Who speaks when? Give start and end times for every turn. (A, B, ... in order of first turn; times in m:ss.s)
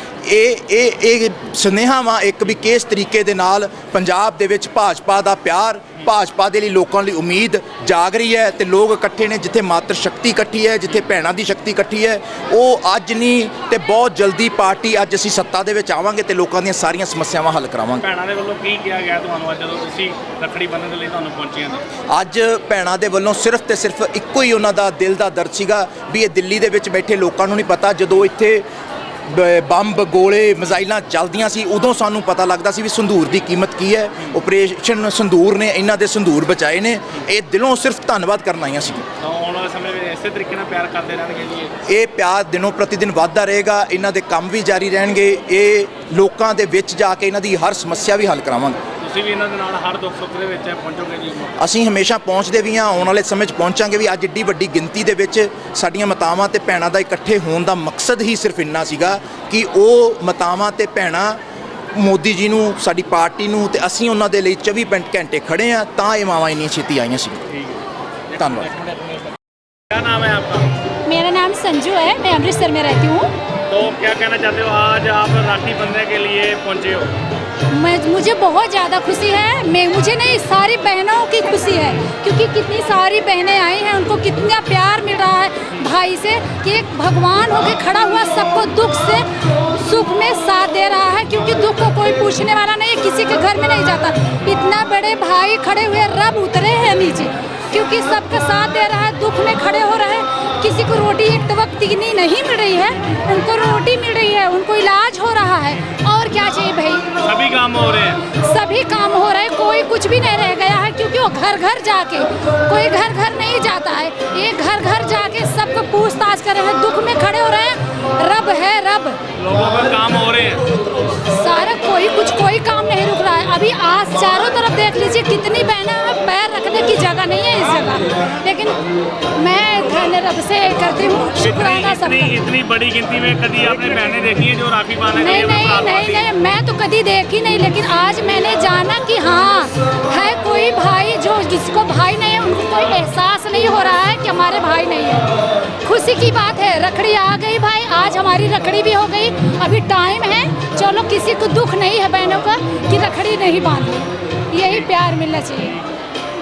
0:00.2-0:18.0 A
0:18.0-0:21.8 B
0:22.1-0:28.6 A
0:29.3-0:39.0 A
0:39.2-0:41.8 B
0:41.9-0:48.8 A
0:49.0-0:51.6 B
0:51.6-1:01.4 A
1:01.9-1:07.4 A
1:07.5-1:07.8 B
1:08.3-1:09.2 B
1:08.4-1:08.7 A
1:09.9-1:10.7 B
1:11.0-1:13.3 C
1:13.7-1:17.1 B
1:17.7-1:47.1 C
1:47.2-1:48.2 B
1:48.3-1:59.2 C
1:59.4-2:00.6 B
2:01.3-2:08.8 C
2:09.4-2:12.4 C
2:11.4-2:16.2 B
2:15.1-2:25.3 C
2:25.8-2:35.7 C